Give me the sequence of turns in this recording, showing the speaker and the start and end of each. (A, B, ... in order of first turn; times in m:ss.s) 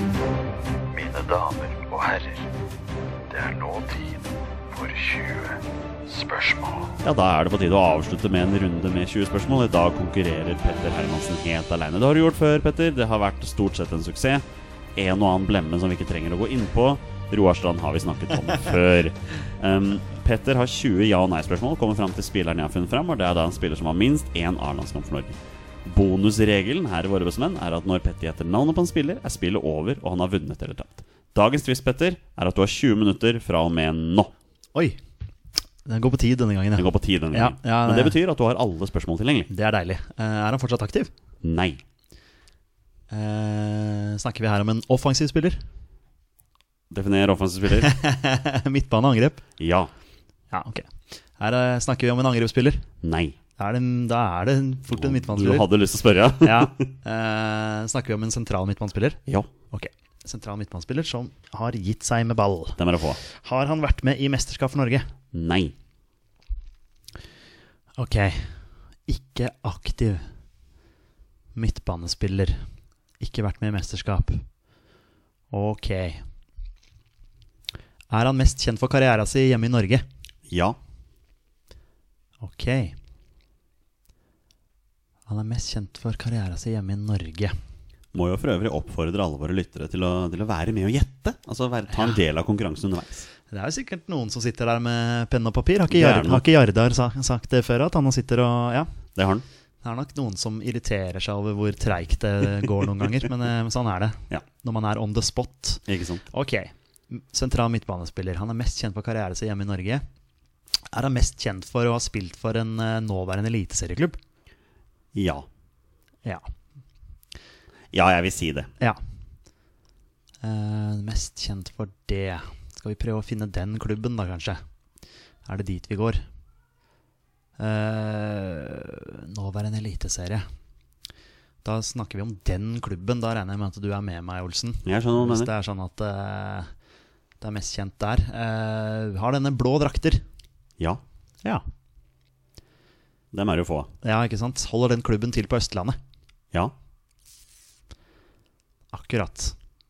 0:00.9-0:02.5 A
0:03.3-0:07.0 A
0:07.0-0:14.4 B
0:15.0-0:34.3 B
0:35.8-0:38.2 C
0:36.8-0:39.5 B
0:39.5-0:41.1 C
0:41.4-0:41.8 B
0:43.1-0:45.6 C
0:46.9-0:48.0 B
0:47.8-0:49.4 C
0:49.6-0:49.9 B
0:50.5-0:52.8 C
0:53.0-0:53.4 B
0:53.6-0:55.7 C
0:54.9-0:56.9 B
0:56.4-0:59.2 C
0:59.7-1:05.0 C
1:02.8-1:03.2 B
1:05.3-1:05.7 B
1:08.0-1:10.2 C
1:11.5-1:12.6 C
1:13.2-1:14.4 C
1:15.5-1:16.2 C
1:18.1-1:20.0 C
1:20.5-1:20.8 B
1:22.4-1:22.9 C
1:25.3-1:27.5 C
1:28.1-1:33.3 B
1:33.5-1:38.9 C
1:35.9-1:36.4 B
1:39.2-1:39.4 B
1:39.8-1:50.0 C
1:45.9-1:46.2 B
1:50.9-1:54.2 C
1:55.1-1:55.5 B
1:57.9-1:58.7 B
2:00.4-2:04.6 C
2:05.4-2:06.2 C
2:07.6-2:10.4 C
2:11.6-2:16.7 C
2:14.8-2:15.5 B
2:17.4-2:20.2 C
2:23.3-2:23.9 B
2:24.0-2:26.0 C
2:28.9-2:29.5 C